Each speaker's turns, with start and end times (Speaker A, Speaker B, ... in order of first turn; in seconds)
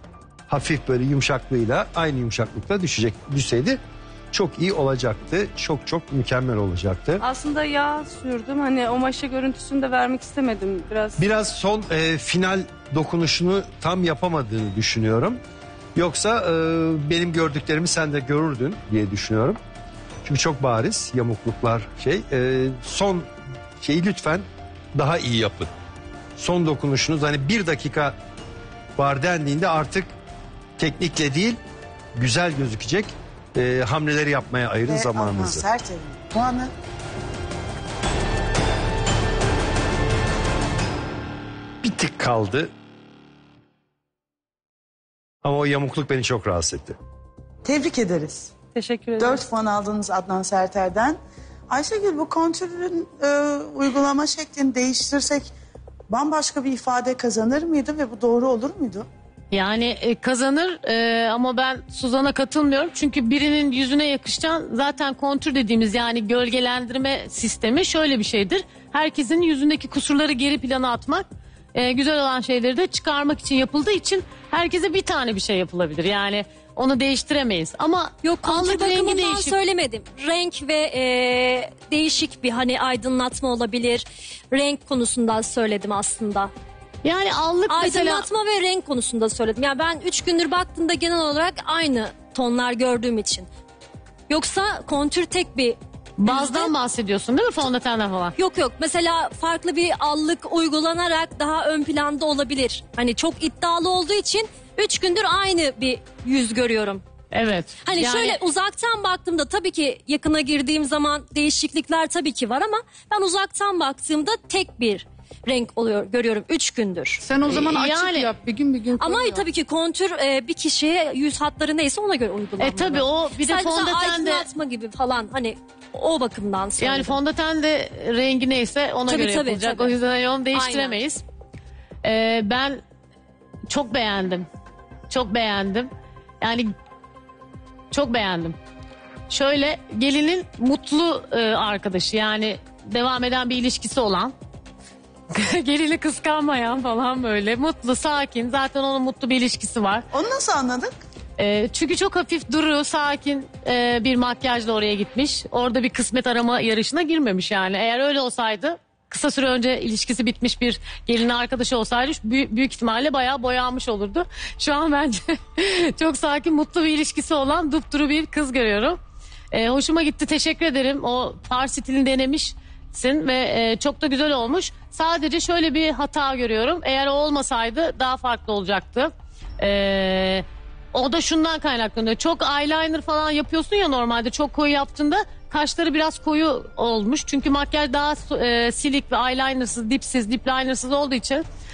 Speaker A: 0.5-3.8, 4.3-7.2, 11.2-15.4, 15.9-19.6, 20.2-25.7, 26.4-28.2, 29.0-30.1, 30.8-31.6, 32.1-35.6, 41.8-42.7, 45.4-47.0
Speaker B: 7.2-11.2
Speaker C: 34.9-36.7, 47.6-48.5, 49.2-51.2, 51.7-55.5, 56.1-59.1, 150.1-150.9
Speaker D: 48.8-49.3, 59.5-79.5, 87.0-88.2, 96.2-98.3, 107.3-108.4, 117.4-118.3, 122.6-124.5, 126.8-131.2, 132.0-132.8, 133.7-134.5, 135.1-135.9, 136.4-136.7, 137.9-138.6, 139.3-144.3, 145.3-150.1, 151.4-169.0, 169.5-191.4
Speaker E: 78.2-86.5, 87.7-93.5, 94.3-96.7, 98.4-107.0, 107.8-117.2, 119.0-127.2, 129.1-129.9, 130.5-131.0
Speaker F: 117.2-119.4